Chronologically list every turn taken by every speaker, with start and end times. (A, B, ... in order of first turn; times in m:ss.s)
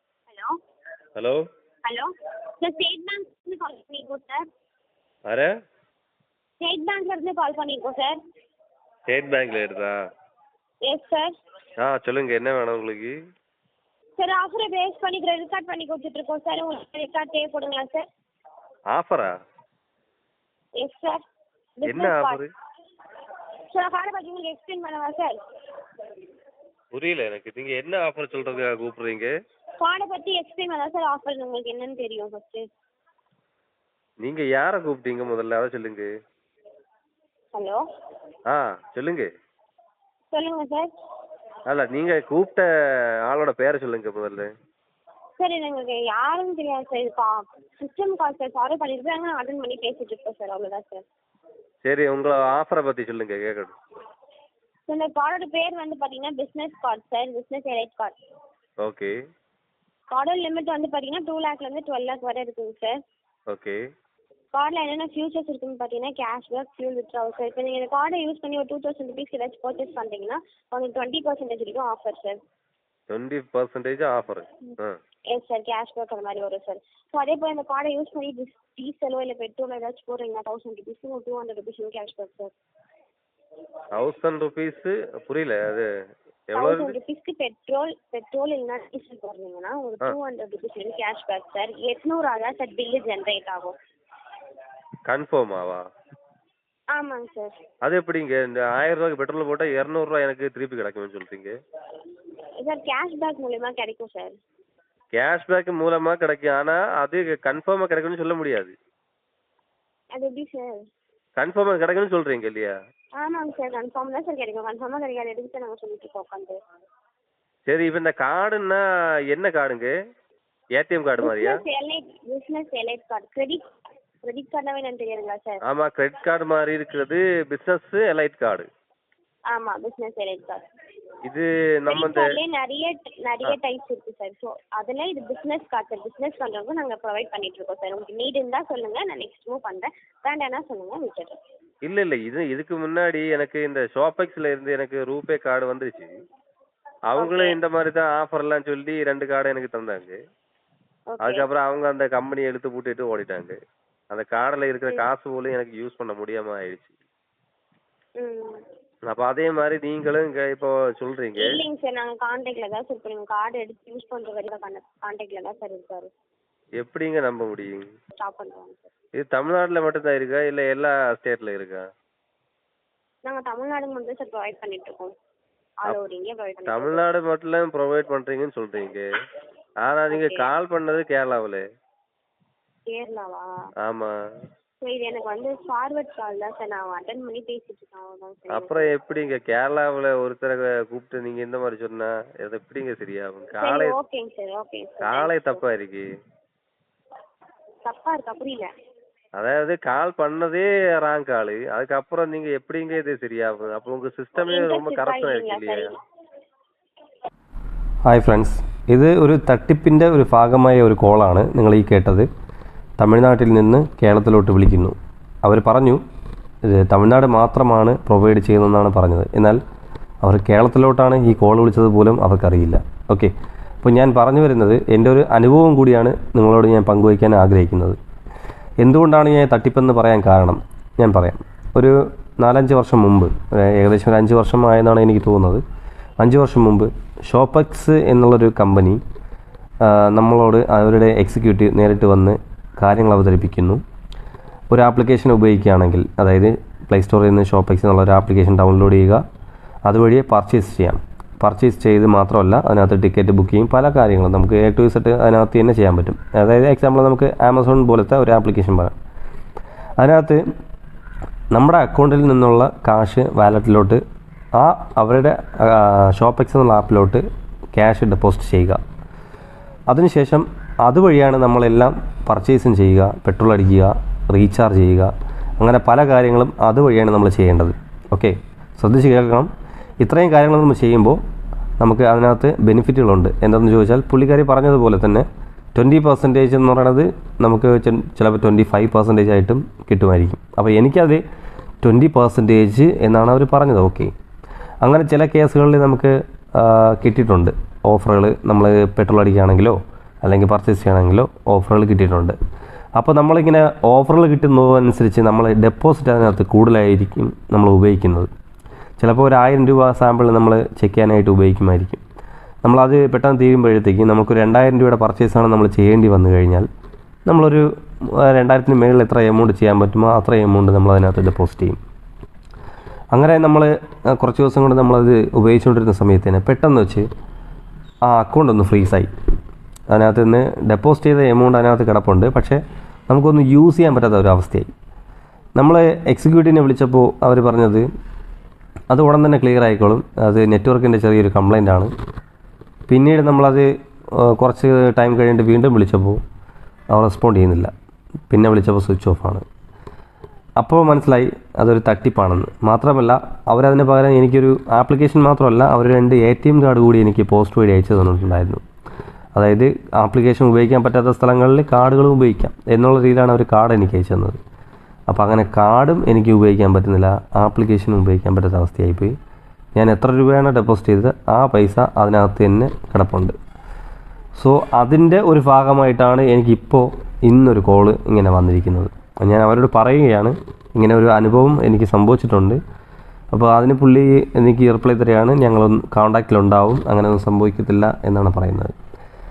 0:00.3-0:00.6 A
0:01.2-0:01.4 B
0:01.8-0:04.4 A
0:05.3-0:05.6 B
0:06.6-0:08.2 A
0:09.1-0:10.0 B
0:10.8-0:11.3 A
0:11.8-0:13.1 B
0:14.2-0:18.0 A
0:18.9-0:19.3 B
0:20.8-0:21.2 A
0:21.8-0:22.4 A
0:21.9-0:22.5 B
0:23.7-0:25.4 A
0:26.9-0:29.3 B
0:29.8-0:32.7 A
0:34.2-0:36.1 B
0:37.5-0:37.8 A
0:38.5-0:39.3 B
0:40.3-0:40.9 A
0:41.7-0:42.7 B
0:43.2-0:44.5 B
0:45.4-0:51.0 A
0:51.8-0:53.8 B
0:54.9-0:58.2 A
0:58.8-0:59.1 B
1:00.1-1:03.0 A
1:03.5-1:03.8 B
1:04.5-1:12.4 A
1:13.1-1:15.0 B
1:15.3-1:22.5 A
1:24.0-1:25.9 B
1:26.5-1:27.0 B
1:26.6-1:33.8 A
1:35.1-1:35.8 B
1:36.9-1:37.6 A
1:37.8-1:41.6 B
1:42.6-1:44.4 A
1:45.1-1:48.7 B
1:50.1-1:50.8 A
1:51.4-1:52.8 B
1:53.2-1:56.6 A
1:57.7-1:59.9 B
2:00.8-2:01.6 B
2:01.2-2:03.7 A
2:04.2-2:05.6 A
2:05.7-2:08.7 B
2:09.5-2:10.6 A
2:11.3-2:12.3 B
2:11.9-2:21.4 A
2:21.8-2:26.1 B
2:27.1-2:30.2 B
2:27.2-2:27.6 A
2:31.1-2:31.5 A
2:31.2-2:33.6 B
2:34.1-2:36.9 B
2:38.2-2:38.6 A
2:39.1-2:41.5 B
2:41.4-2:46.1 A
2:46.8-2:47.9 B
2:48.2-2:48.9 A
2:49.2-2:51.8 B
2:53.2-2:55.1 A
2:55.8-2:57.0 A
2:56.7-2:59.0 B
2:59.8-3:01.6 B
3:00.1-3:00.5 A
3:02.9-3:03.5 A
3:03.8-3:04.1 B
3:04.8-3:08.9 A
3:08.5-3:14.0 B
3:13.6-3:15.6 A
3:15.0-3:16.1 B
3:17.8-3:18.7 A
3:19.4-3:25.9 B
3:24.4-3:26.0 A
3:28.1-3:32.3 C
3:33.0-3:36.0 C
3:36.6-3:39.6 C
3:40.2-3:43.3 C
3:43.8-3:48.0 C
3:48.8-3:55.6 C
3:56.2-3:59.0 C
3:59.8-4:03.8 C
4:04.7-4:09.2 C
4:09.9-4:18.9 C
4:20.0-4:20.4 C
4:21.5-4:24.0 C
4:24.5-4:28.8 C
4:29.9-4:39.5 C
4:40.0-4:41.2 C
4:41.8-4:51.2 C
4:51.8-4:54.1 C
4:54.8-5:02.4 C
5:03.0-5:08.3 C
5:09.0-5:12.0 C
5:12.6-5:16.7 C
5:17.3-5:21.8 C
5:23.1-5:27.1 C
5:28.0-5:29.1 C
5:29.9-5:34.7 C
5:35.6-5:37.9 C
5:38.9-5:41.9 C
5:42.9-5:46.2 C
5:46.9-5:47.7 C
5:48.3-5:49.4 C
5:50.6-5:58.6 C
5:59.4-6:04.4 C
6:05.1-6:09.2 C
6:09.8-6:13.3 C
6:14.4-6:22.6 C
6:23.3-6:28.8 C